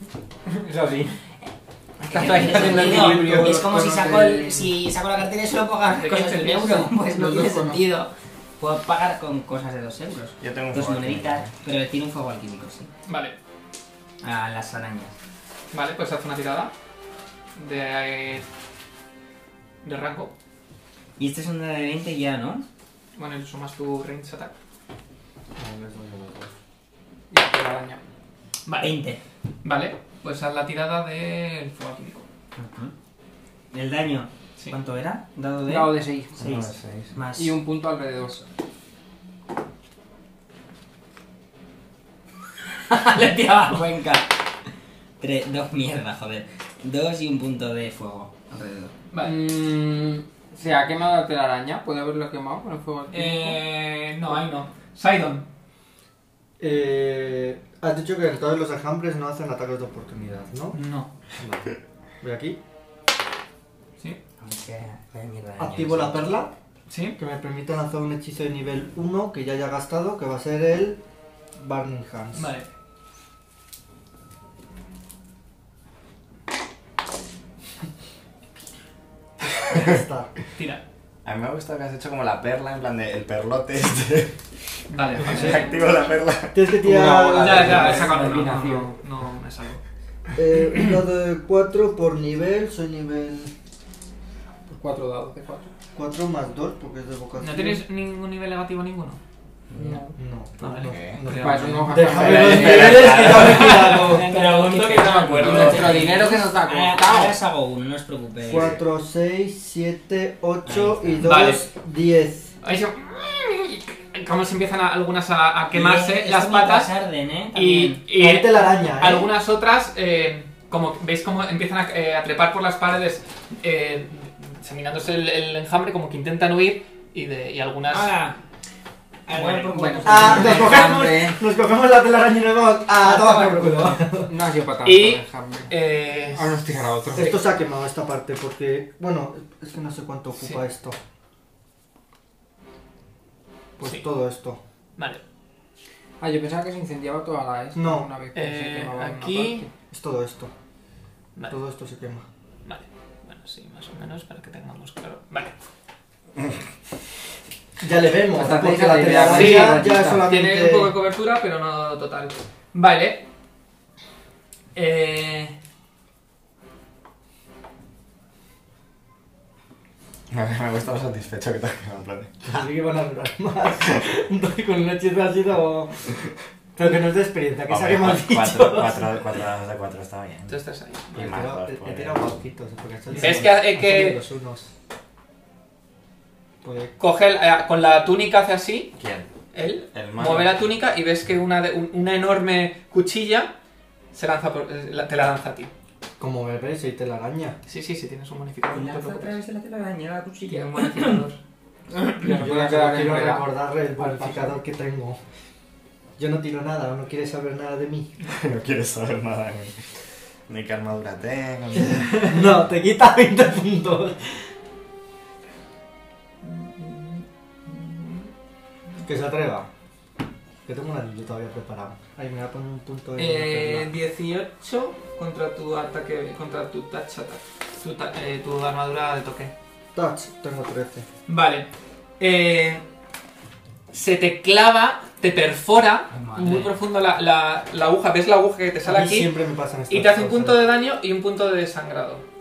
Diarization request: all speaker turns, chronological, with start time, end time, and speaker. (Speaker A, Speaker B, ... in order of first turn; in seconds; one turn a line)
Speaker A: 0.5-1.2
Speaker B: 2.0-12.9
Speaker A: 2.0-4.2
Speaker C: 2.3-4.7
Speaker D: 5.9-7.9
Speaker A: 7.0-7.5
Speaker E: 10.4-11.5
Speaker D: 13.1-13.4
Speaker B: 14.2-15.2
Speaker D: 15.7-16.7
Speaker D: 17.6-18.4
Speaker D: 19.8-20.3
Speaker B: 21.2-22.6
Speaker D: 23.1-24.5
Speaker C: 25.6-26.5
Speaker A: 27.3-28.0
Speaker D: 28.6-29.0
Speaker B: 28.8-29.2
Speaker D: 29.6-32.2
Speaker B: 32.5-32.9
Speaker B: 33.7-37.6
Speaker A: 35.6-36.5
Speaker E: 36.4-37.1
Speaker A: 37.3-38.5
Speaker B: 42.9-44.5
Speaker B: 45.2-48.9
Speaker A: 49.2-53.6
Speaker D: 53.1-55.5
Speaker C: 56.6-60.8
Speaker D: 60.7-61.1
Speaker C: 61.4-62.6
Speaker B: 64.4-66.3
Speaker C: 65.6-66.5
Speaker D: 66.9-67.2
Speaker C: 67.2-71.0
Speaker C: 71.5-72.5
Speaker D: 72.3-72.7
Speaker C: 79.5-80.3
Speaker D: 80.5-80.8
Speaker E: 81.2-86.7
Speaker D: 84.9-85.9
Speaker C: 85.2-85.6
Speaker C: 86.5-88.8
Speaker A: 86.8-89.0
Speaker D: 87.4-89.8
Speaker C: 90.3-93.5
Speaker A: 94.7-95.7
Speaker C: 95.9-97.8
Speaker D: 97.4-99.2
Speaker B: 99.7-100.0
Speaker A: 99.7-100.2
Speaker C: 100.2-104.3
Speaker D: 100.6-101.9
Speaker E: 100.8-101.2
Speaker A: 101.3-103.3
Speaker E: 102.1-103.7
Speaker D: 102.8-106.2
Speaker B: 103.3-108.8
Speaker A: 105.4-107.4
Speaker C: 108.4-112.5
Speaker E: 108.5-108.8
Speaker B: 110.6-111.3
Speaker D: 111.2-111.6
Speaker D: 112.6-116.9
Speaker B: 115.7-118.0
Speaker D: 117.5-128.1
Speaker C: 118.2-119.3
Speaker B: 127.9-128.4
Speaker B: 129.2-130.9
Speaker D: 129.3-130.6
Speaker A: 129.4-131.4
Speaker C: 130.1-134.3
Speaker D: 133.0-133.8
Speaker B: 133.1-133.5
Speaker A: 134.2-135.7
Speaker D: 134.8-137.4
Speaker A: 136.3-137.4
Speaker C: 137.1-141.0
Speaker D: 140.3-140.6
Speaker C: 143.8-144.6
Speaker D: 145.0-145.2
Speaker A: 146.2-149.7
Speaker C: 147.7-148.1
Speaker D: 148.3-149.7
Speaker C: 149.9-150.5
Speaker C: 151.5-152.2
Speaker D: 152.6-155.5
Speaker C: 157.8-160.9
Speaker A: 158.3-160.3
Speaker D: 159.1-163.2
Speaker D: 164.7-165.6
Speaker E: 170.3-172.3
Speaker C: 172.4-179.1
Speaker E: 177.7-180.6
Speaker D: 180.5-181.1
Speaker C: 181.1-184.7
Speaker E: 181.1-182.3
Speaker D: 183.1-184.2
Speaker C: 186.6-186.9
Speaker D: 187.0-188.9
Speaker E: 189.0-189.3
Speaker D: 189.5-193.5
Speaker E: 189.9-190.6
Speaker D: 194.1-195.7
Speaker C: 196.2-197.6
Speaker D: 197.7-199.4
Speaker B: 198.7-201.2
Speaker D: 200.5-201.4
Speaker A: 202.1-204.6
Speaker C: 202.2-205.2
Speaker C: 206.2-208.1
Speaker E: 208.3-209.9
Speaker E: 210.5-212.3
Speaker C: 211.8-214.4
Speaker D: 216.4-218.3
Speaker C: 219.0-219.7
Speaker C: 220.7-223.9
Speaker D: 223.2-229.5
Speaker C: 229.9-231.1
Speaker D: 231.3-231.7
Speaker D: 232.2-232.8
Speaker D: 233.9-239.3
Speaker B: 236.1-236.8
Speaker C: 238.8-240.6
Speaker D: 239.9-242.2